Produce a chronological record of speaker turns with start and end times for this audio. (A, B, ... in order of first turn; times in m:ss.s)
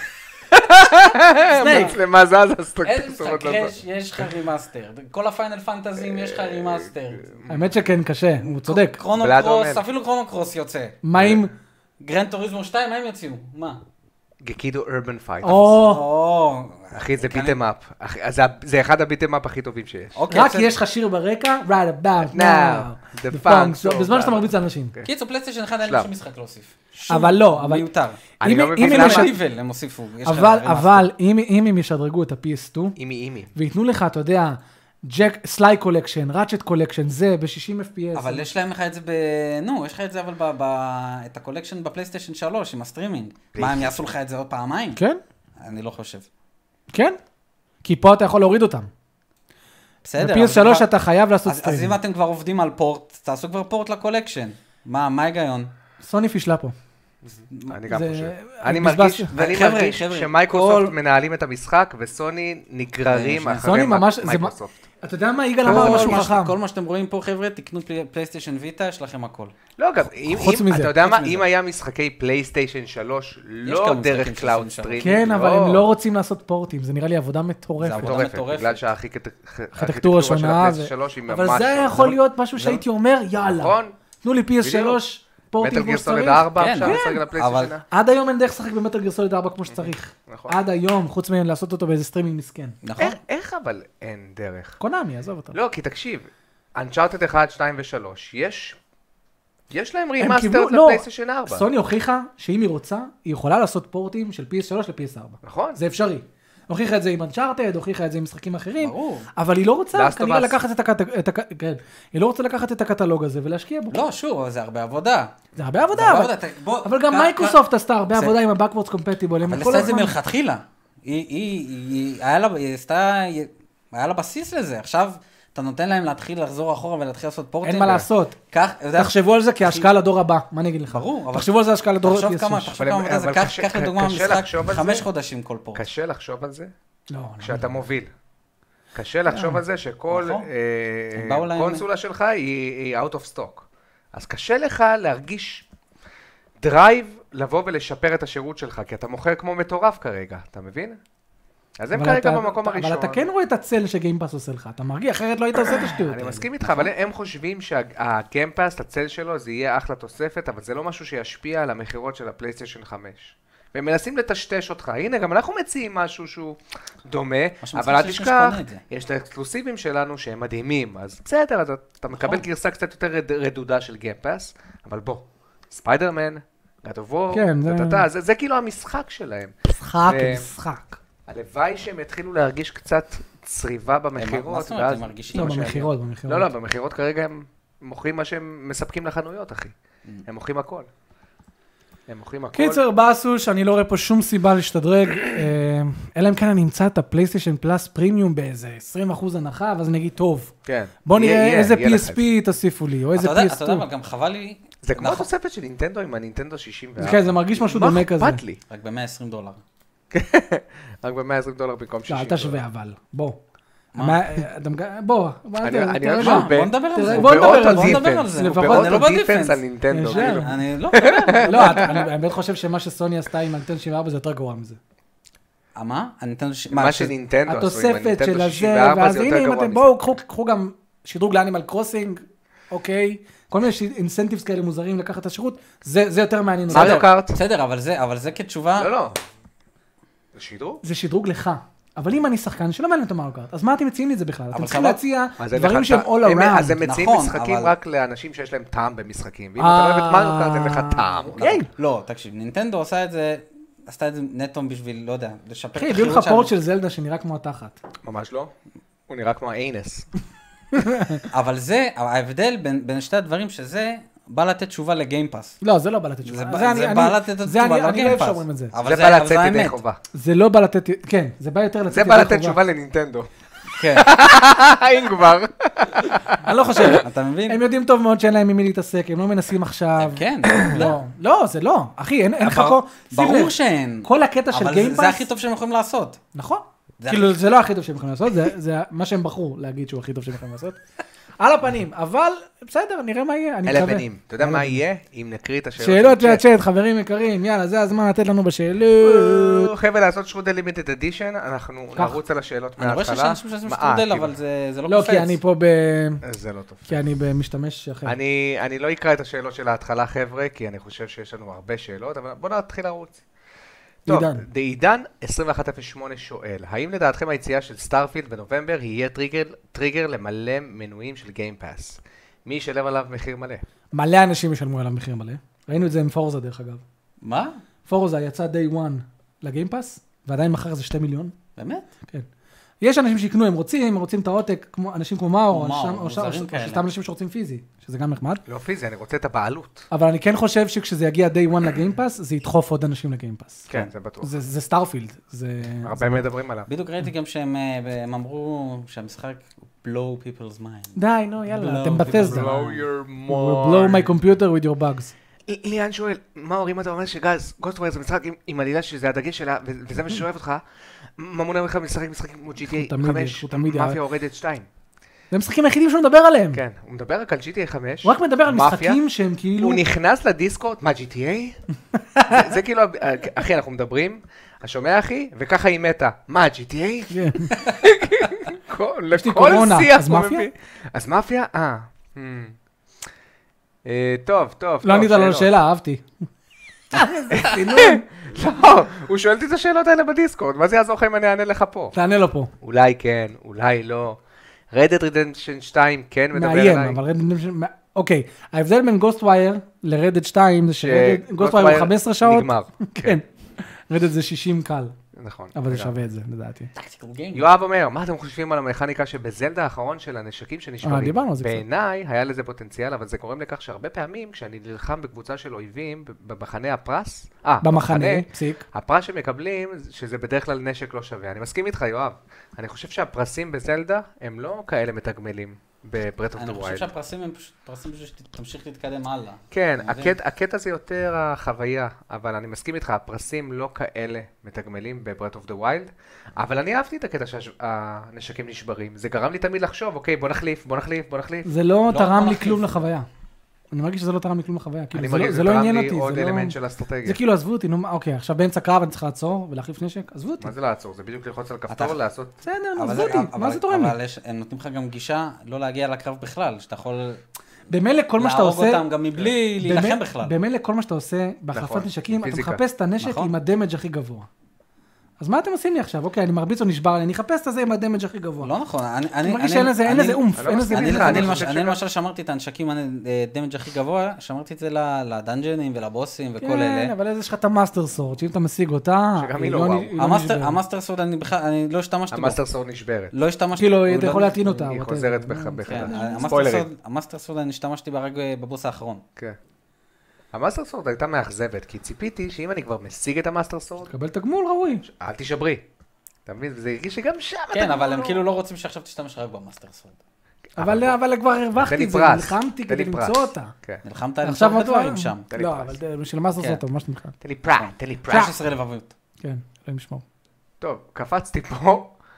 0:00.5-0:03.7 A
0:01.5-0:02.0 B
0:01.6-0:01.9 C
0:02.8-0:07.4 C
0:06.0-0:07.7 A
0:07.5-0:09.0 B
0:08.4-0:11.0 C
0:09.1-0:09.8 A
0:11.0-0:11.5 B
0:11.2-0:11.4 A
0:12.0-0:13.8 C
0:14.4-0:15.8 A
0:15.4-0:16.0 B
0:15.8-0:17.6 C
0:16.9-0:20.2 A
0:20.1-0:20.8 C
0:20.3-0:24.9 B
0:22.3-0:25.1 A
0:25.0-0:31.1 C
0:25.8-0:26.1 A
0:27.1-0:27.9 B
0:28.4-0:29.3 A
0:28.4-0:29.3 B
0:30.2-0:33.0 B
0:33.0-0:33.5 A
0:33.5-0:38.5 B
0:38.1-0:45.0 C
0:43.5-0:44.1 A
0:44.9-0:45.2 B
0:45.6-0:46.3 C
0:46.9-0:47.2 B
0:47.8-0:48.9 B
0:50.0-0:50.9 C
0:50.2-0:52.0 B
0:51.4-0:55.7 C
0:56.0-0:56.7 B
0:57.2-1:04.8 A
0:57.6-0:59.3 B
0:59.3-1:00.9 C
1:03.1-1:03.7 C
1:03.6-1:06.5 B
1:05.6-1:06.3 A
1:05.6-1:09.5 C
1:09.8-1:15.9 A
1:10.2-1:11.0 B
1:11.0-1:11.4 C
1:13.6-1:15.2 C
1:15.0-1:18.2 B
1:17.8-1:18.8 C
1:17.9-1:22.2 A
1:19.8-1:27.2 B
1:23.4-1:23.9 A
1:24.6-1:25.0 A
1:25.6-1:27.8 A
1:26.6-1:27.7 C
1:27.9-1:32.8 B
1:29.7-1:30.5 A
1:32.8-1:33.2 C
1:33.0-1:34.8 A
1:34.8-1:35.6 B
1:35.5-1:38.8 A
1:39.7-1:41.7 A
1:40.2-1:54.0 B
1:45.4-1:45.8 A
1:48.8-1:49.3 C
1:49.9-1:50.6 A
1:53.9-1:55.4 C
1:55.6-2:00.1 B
1:55.9-1:57.6 C
1:59.5-2:09.9 C
2:07.6-2:08.4 B
2:09.0-2:12.7 B
2:10.9-2:15.8 C
2:12.7-2:15.1 A
2:15.7-2:16.7 A
2:17.1-2:17.6 B
2:17.4-2:18.1 A
2:18.9-2:25.6 A
2:19.3-2:19.6 B
2:20.1-2:20.5 C
2:21.1-2:21.8 C
2:26.6-2:31.0 A
2:31.8-2:33.2 A
2:31.9-2:36.5 B
2:35.7-3:00.5 A
2:36.6-2:36.9 C
2:47.6-2:48.8 C
2:52.1-2:52.4 C
2:57.3-2:58.0 B
2:59.7-3:01.0 B
3:01.3-3:10.9 A
3:04.2-3:05.8 C
3:05.3-3:06.5 B
3:12.1-3:12.8 A
3:12.5-3:20.5 B
3:20.6-3:22.2 A
3:21.0-3:23.8 B
3:23.1-3:25.3 C
3:24.8-3:28.6 A
3:27.0-3:28.4 B
3:28.7-3:29.6 C
3:30.1-3:32.6 A
3:32.1-3:33.4 B
3:33.9-3:34.4 C
3:34.0-3:39.0 B
3:35.6-3:42.1 A
3:36.2-3:41.9 C
3:39.9-3:40.5 B
3:41.4-3:44.8 B
3:45.7-3:47.1 C
3:46.7-3:50.0 A
3:47.5-3:57.0 B
3:56.7-3:58.9 C
3:56.7-3:57.4 A
3:58.8-3:59.2 A
4:00.3-4:00.8 A
4:00.8-4:06.8 B
4:04.5-4:05.0 C
4:05.4-4:11.4 A
4:06.8-4:07.7 C
4:09.6-4:11.7 B
4:11.4-4:16.5 C
4:15.8-4:17.8 B
4:18.0-4:18.5 A
4:19.1-4:20.1 A
4:20.7-4:21.2 B
4:21.3-4:25.6 C
4:25.6-4:28.7 B
4:26.2-4:29.8 C
4:28.8-4:30.0 A
4:30.1-4:32.6 B
4:31.9-4:33.3 A
4:33.8-4:34.1 C
4:33.8-4:37.0 A
4:36.4-4:45.3 B
4:37.0-4:37.6 C
4:40.0-4:41.0 C
4:40.5-4:40.8 A
4:42.4-4:46.2 C
4:46.3-4:50.8 B
4:47.0-4:47.4 C
4:51.4-4:54.8 B
4:53.6-4:56.4 A
4:55.8-4:59.7 B
4:59.0-5:04.4 A
5:02.8-5:05.4 C
5:04.9-5:06.2 B
5:06.2-5:07.0 A
5:06.9-5:08.2 B
5:08.0-5:13.2 A
5:14.0-5:23.6 A
5:14.1-5:14.4 B
5:23.9-5:26.8 B
5:27.2-5:27.6 C
5:27.8-5:31.4 B
5:31.6-5:31.9 C
5:32.8-5:38.4 B
5:35.5-5:36.8 C
5:38.5-5:39.9 A
5:39.9-5:43.7 B
5:43.7-5:44.3 A
5:44.2-5:46.2 B
5:45.8-5:46.7 A
5:46.7-5:52.8 C
5:50.9-5:52.6 B
5:52.0-5:54.2 A
5:53.3-5:55.1 B
5:55.5-6:04.7 A
6:02.6-6:04.0 B
6:05.3-6:06.6 B
6:06.5-6:09.0 A
6:08.0-6:09.8 B
6:09.6-6:11.6 A
6:12.1-6:12.5 B
6:12.3-6:22.6 A
6:17.1-6:17.6 B
6:19.1-6:20.5 B
6:23.8-6:25.5 A
6:24.8-6:26.0 B
6:26.9-6:28.0 B
6:27.3-6:31.9 A
6:31.9-6:32.5 B
6:32.6-6:34.2 A
6:34.7-6:37.0 A
6:36.3-6:45.0 B
6:40.8-6:43.2 A
6:45.1-6:45.9 A
6:45.5-6:46.7 B
6:46.7-6:47.4 C
6:47.3-7:06.9 A
6:50.8-6:51.6 B
6:57.6-6:58.6 B
7:06.4-7:10.1 C
7:09.5-7:21.5 A
7:21.4-7:23.1 B
7:21.9-7:22.8 C
7:23.7-7:30.5 B
7:24.9-7:27.2 A
7:30.4-7:32.4 A
7:31.7-7:32.0 C
7:32.4-7:34.0 B
7:32.8-7:37.2 C
7:37.7-7:38.8 B
7:38.2-7:40.3 C
7:39.6-7:44.3 B
7:41.5-7:42.6 A
7:43.0-7:43.3 C
7:45.2-7:48.5 B
7:48.4-7:56.9 C
7:49.2-7:51.4 B
7:50.4-7:51.8 A
7:56.4-8:00.6 B
7:59.2-7:59.9 A
8:00.0-8:02.4 C
8:02.1-8:03.1 A
8:03.1-8:04.6 C
8:03.6-8:06.4 B
8:04.6-8:06.7 A
8:05.6-8:09.0 C
8:10.3-8:13.9 A
8:13.9-8:14.8 B
8:14.8-8:15.6 A
8:16.2-8:18.2 A
8:17.5-8:20.0 C
8:20.6-8:23.5 B
8:20.6-8:21.0 A
8:21.6-8:23.8 A
8:23.8-8:25.2 C
8:24.2-8:27.2 B
8:25.3-8:25.8 A
8:27.2-8:28.3 A
8:27.6-8:28.9 C
8:29.2-8:30.0 B
8:30.6-8:31.9 A